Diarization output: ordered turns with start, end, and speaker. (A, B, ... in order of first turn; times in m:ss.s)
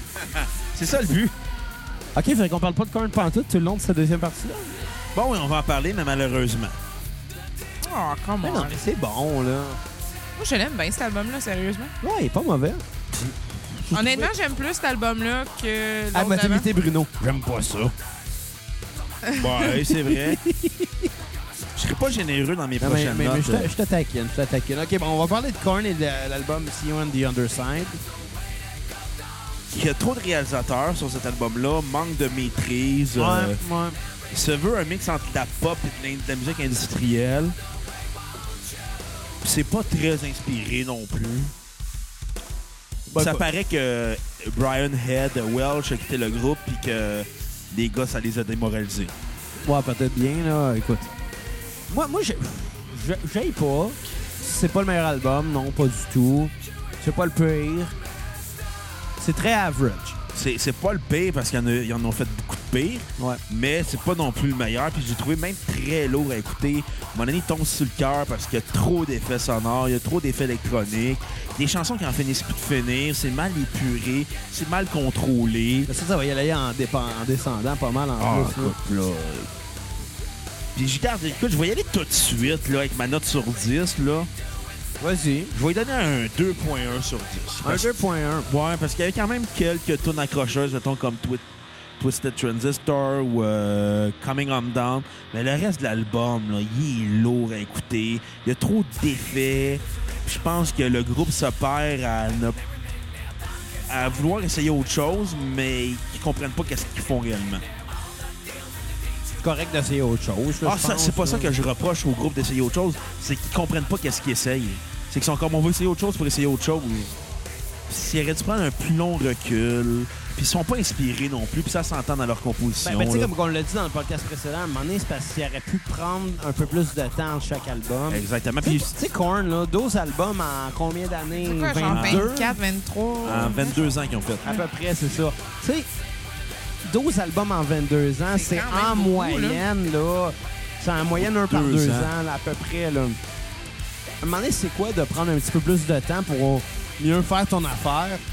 0:00.3-0:01.3 A
0:02.1-0:04.9 B
0:05.1-0:06.8 A
0:07.8-0:08.8 C
0:08.4-0:09.8 B
0:10.4-0:11.9 C
0:12.0-0:12.8 B
0:13.9-0:14.2 A
0:13.9-0:16.7 C
0:16.1-0:17.9 B
0:19.2-0:19.7 C
0:19.3-0:20.4 A
0:20.0-0:21.1 B
0:21.8-0:23.7 A
0:22.8-0:28.0 B
0:29.7-0:33.6 A
0:33.2-0:34.0 B
0:34.3-0:37.6 A
0:39.4-0:41.5 A
0:43.1-0:43.4 B
0:43.2-0:49.1 A
0:49.6-0:51.1 B
0:51.9-0:58.0 B
0:59.2-1:00.2 B
1:00.3-1:15.9 A
1:15.9-1:18.7 B
1:18.2-1:19.5 A
1:20.8-1:24.3 A
1:25.0-1:25.5 B
1:25.5-1:31.4 A
1:27.6-1:28.5 B
1:32.0-1:42.6 A
1:43.9-1:47.6 A
1:49.4-1:51.5 B
1:50.6-1:57.2 A
1:57.9-2:03.3 A
2:02.8-2:12.6 B
2:08.1-2:08.9 A
2:11.4-2:14.6 C
2:11.9-2:12.4 A
2:13.2-2:14.4 A
2:14.4-2:15.9 B
2:16.8-2:23.2 B
2:18.3-2:19.6 C
2:21.2-2:22.1 A
2:24.2-2:28.2 B